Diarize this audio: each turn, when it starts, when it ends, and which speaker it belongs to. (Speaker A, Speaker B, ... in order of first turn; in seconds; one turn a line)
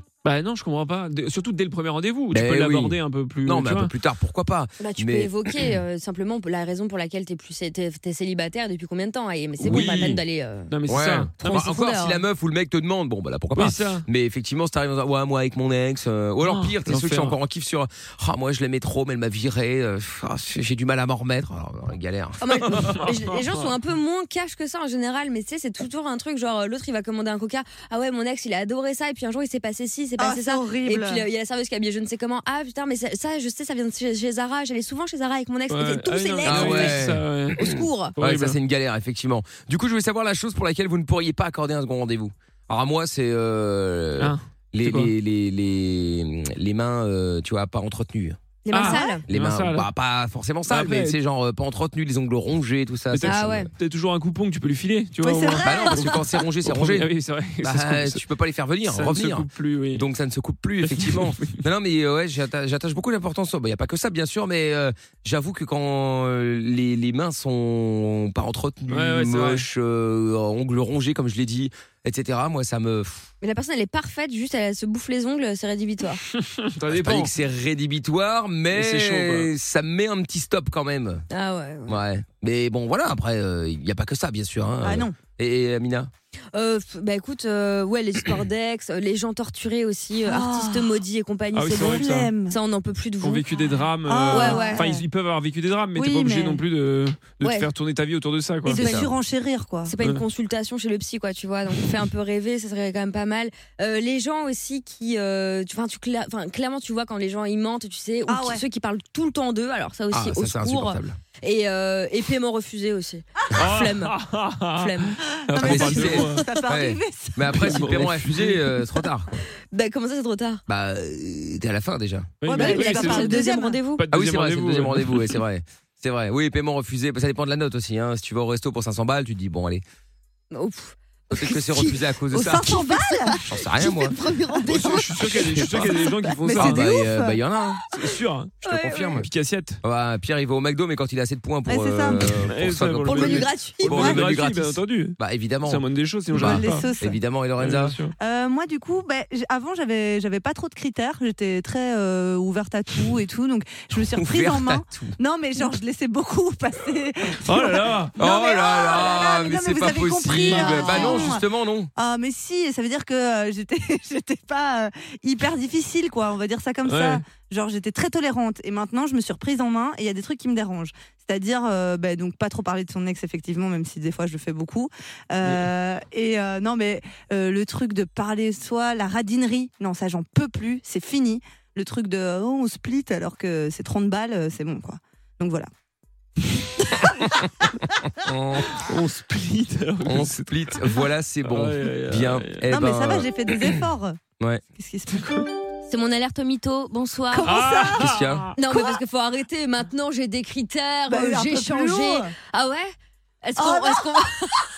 Speaker A: 0.2-3.9
Speaker B: 2.3-5.3
Speaker C: 4.8-10.7
Speaker A: 9.6-10.1
Speaker B: 9.6-10.2
Speaker A: 10.7-11.4
Speaker B: 10.9-23.0
Speaker C: 11.4-12.2
Speaker A: 13.6-14.0
Speaker A: 16.4-17.4
Speaker C: 22.4-38.1
Speaker A: 22.7-23.7
Speaker D: 30.2-31.2
Speaker A: 35.7-37.6
Speaker B: 36.4-48.4
Speaker A: 38.2-38.6
Speaker A: 44.2-45.1
Speaker C: 48.6-49.2
Speaker D: 48.7-49.2
Speaker A: 48.7-49.9
Speaker B: 49.3-53.7
Speaker A: 50.7-51.2
Speaker A: 53.1-58.2
Speaker C: 53.2-53.7
Speaker D: 55.2-56.2
Speaker B: 55.6-57.1
Speaker B: 57.6-73.3
Speaker A: 58.9-60.0
Speaker A: 60.8-61.6
Speaker A: 68.9-69.6
Speaker C: 73.4-76.2
Speaker A: 76.4-77.3
Speaker B: 76.9-81.2
Speaker A: 78.7-79.5
Speaker C: 81.3-82.0
Speaker B: 81.9-86.1
Speaker D: 84.8-85.2
Speaker C: 86.5-93.4
Speaker D: 90.2-91.0
Speaker A: 91.5-92.3
Speaker D: 91.8-92.6
Speaker A: 93.2-98.9
Speaker D: 94.0-95.0
Speaker C: 94.3-94.9
Speaker D: 95.9-96.6
Speaker C: 97.4-97.7
Speaker D: 98.6-99.9
Speaker C: 98.7-99.1
Speaker C: 99.8-114.2
Speaker D: 108.3-108.6
Speaker B: 110.1-111.2
Speaker A: 113.5-116.5
Speaker C: 114.7-116.1
Speaker D: 115.4-117.8
Speaker B: 115.6-119.3
Speaker A: 117.5-118.7
Speaker C: 119.7-120.6
Speaker B: 120.7-122.3
Speaker A: 122.4-123.4
Speaker D: 122.4-123.8
Speaker C: 122.5-124.0
Speaker A: 124.0-125.3
Speaker B: 124.1-129.8
Speaker C: 130.5-131.9
Speaker B: 131.3-132.8
Speaker D: 132.3-137.4
Speaker C: 132.6-133.4
Speaker B: 133.5-134.2
Speaker C: 134.2-134.7
Speaker A: 134.7-136.9
Speaker B: 135.4-135.9
Speaker B: 136.5-137.8
Speaker A: 137.9-138.6
Speaker B: 138.6-139.3
Speaker C: 138.6-139.2
Speaker A: 139.2-139.8
Speaker B: 139.8-148.0
Speaker D: 141.7-142.5
Speaker A: 142.4-146.9
Speaker C: 143.1-143.9
Speaker D: 143.8-144.2
Speaker D: 146.3-147.2
Speaker A: 147.6-148.1
Speaker D: 148.2-161.4
Speaker B: 154.1-155.2
Speaker A: 157.4-158.2
Speaker B: 158.2-161.9
Speaker A: 160.5-161.2
Speaker D: 161.9-185.7
Speaker A: 166.8-167.2
Speaker A: 175.4-175.7
Speaker B: 188.2-188.8
Speaker A: 188.7-190.9
Speaker B: 190.0-193.3
Speaker A: 191.4-192.7
Speaker D: 192.7-194.2
Speaker D: 194.7-195.4
Speaker C: 195.8-197.9
Speaker D: 197.3-198.1
Speaker A: 197.4-198.5
Speaker B: 198.0-198.5
Speaker C: 198.6-204.6
Speaker D: 198.7-199.0
Speaker D: 201.1-202.3
Speaker D: 203.6-204.2